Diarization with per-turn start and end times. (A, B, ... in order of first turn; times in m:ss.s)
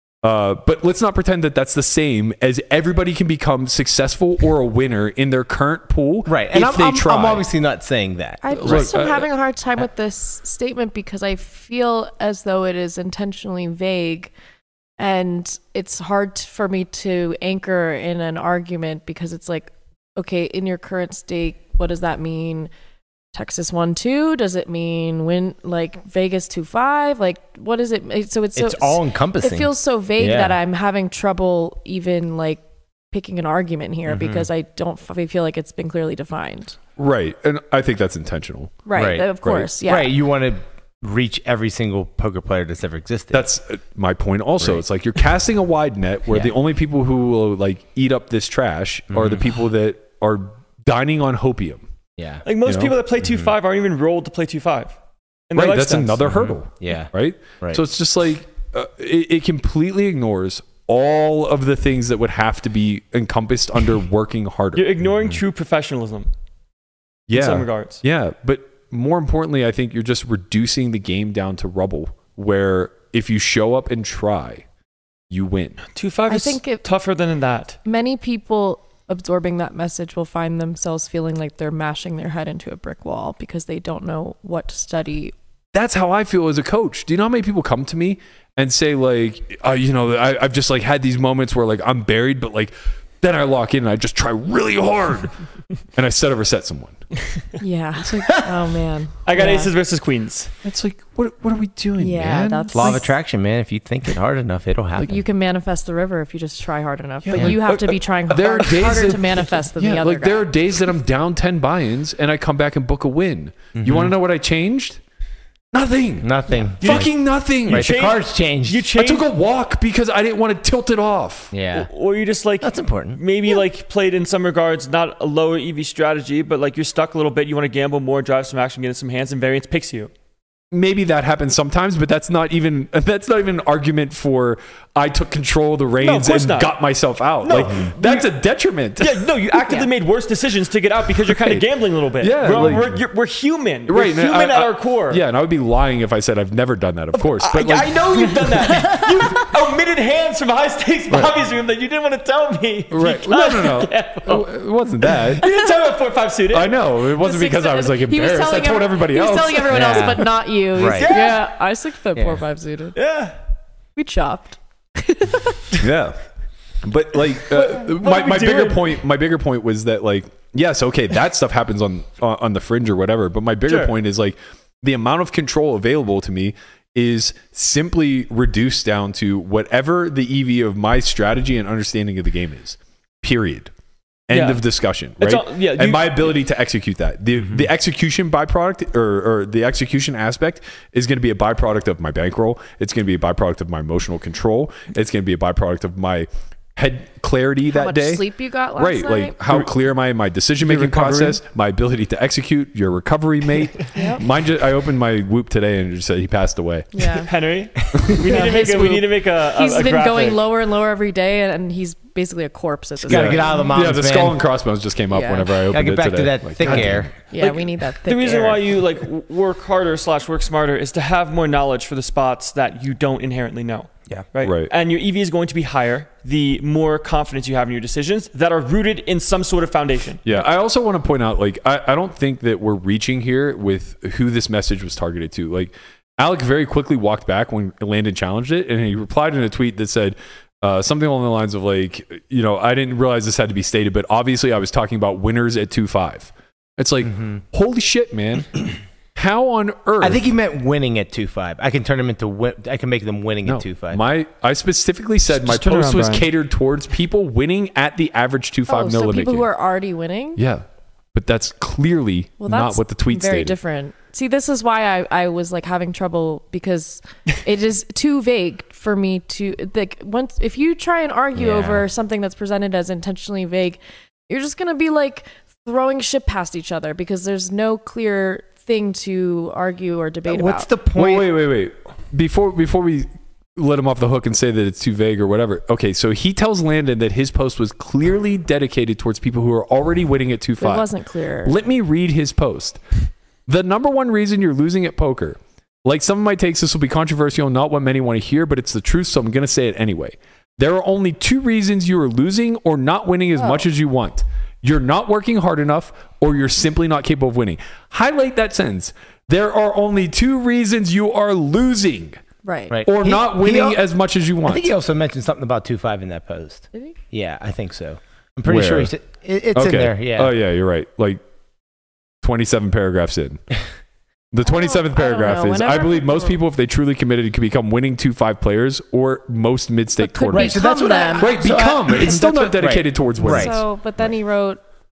0:00.2-0:07.4 A
0:06.3-0:08.9 B
0:08.4-0:14.3 C
0:08.6-0:09.2 A
0:15.0-0:22.7 C
0:23.3-0:36.8 C
0:28.6-0:30.6 B
0:34.1-0:34.5 B
0:37.0-0:39.7 A
0:38.8-0:40.1 C
0:38.9-0:39.2 B
0:39.8-0:43.4 B
0:43.3-0:51.8 A
0:46.3-0:46.5 B
0:49.1-0:49.4 B
0:52.2-0:52.4 B
0:52.4-0:55.0 D
0:52.6-0:52.9 A
0:53.2-0:53.5 B
0:55.5-0:56.3 D
0:55.5-1:04.9 A
0:56.3-0:57.8 B
1:04.7-1:06.3 D
1:07.3-1:14.6 A
1:07.3-1:08.0 D
1:15.3-1:15.8 A
1:15.9-1:17.8 D
1:16.3-1:16.8 C
1:17.8-1:25.3 C
1:25.7-1:35.3 A
1:35.9-1:37.0 A
1:37.6-1:39.7 C
1:38.0-1:38.4 A
1:39.2-1:40.5 D
1:40.6-1:43.0 A
1:42.0-1:43.1 C
1:42.7-1:45.2 B
1:45.0-1:50.5 C
1:47.2-1:55.0 A
1:53.7-1:54.1 B
1:55.7-1:58.1 A
1:56.2-1:57.1 B
1:56.8-1:57.1 D
1:57.6-1:59.2 D
1:57.7-1:58.9 B
1:59.0-2:01.5 A
2:01.5-2:01.9 B
2:01.7-2:10.1 D
2:02.6-2:03.2 B
2:10.7-2:19.3 A
2:16.0-2:16.7 D
2:17.4-2:18.3 D
2:19.0-2:25.2 D
2:21.2-2:21.6 A
2:22.2-2:23.0 A
2:23.9-2:28.0 A
2:27.1-2:34.5 D
2:28.6-2:29.5 C
2:32.9-2:35.5 A
2:35.2-2:36.7 D
2:36.5-2:40.1 A
2:37.2-2:43.0 C
2:39.7-2:41.1 B
2:40.8-2:41.4 D
2:42.2-2:42.4 B
2:42.9-2:43.4 D
2:44.0-2:45.7 C
2:45.8-2:46.2 A
2:46.8-3:03.7 A
2:47.5-2:48.9 D
2:53.7-2:53.9 D
3:04.3-3:27.2 A
3:04.3-3:04.6 D
3:05.2-3:06.3 D
3:17.6-3:19.4 C
3:20.7-3:21.3 B
3:23.9-3:24.2 C
3:26.9-3:27.3 C
3:27.3-3:30.4 D
3:28.2-3:33.8 C
3:33.1-3:34.4 B
3:33.1-3:37.1 A
3:35.1-3:35.5 C
3:35.7-3:37.1 B
3:37.3-3:38.6 C
3:37.4-3:50.2 D
3:44.4-3:44.7 A
3:50.2-4:08.6 A
4:07.0-4:07.4 B
4:09.1-4:10.3 A
4:10.0-4:14.0 B
4:13.4-4:19.5 A
4:15.3-4:16.3 D
4:18.7-4:20.4 C
4:20.4-4:23.6 A
4:22.4-4:40.7 C
4:31.4-4:31.8 B
4:40.3-4:41.3 B
4:40.9-4:50.8 A
4:50.6-4:51.6 C
4:51.4-4:52.8 A
4:53.5-5:12.2 A
5:03.4-5:03.6 C
5:12.4-5:12.8 C
5:12.7-5:13.8 B
5:12.8-5:14.7 A
5:14.4-5:20.3 B
5:18.4-5:18.9 A
5:19.5-5:21.2 A
5:22.2-5:23.4 A
5:24.3-5:33.5 A
5:24.4-5:26.4 C
5:30.0-5:31.4 C
5:30.3-5:33.5 B
5:33.2-5:34.6 C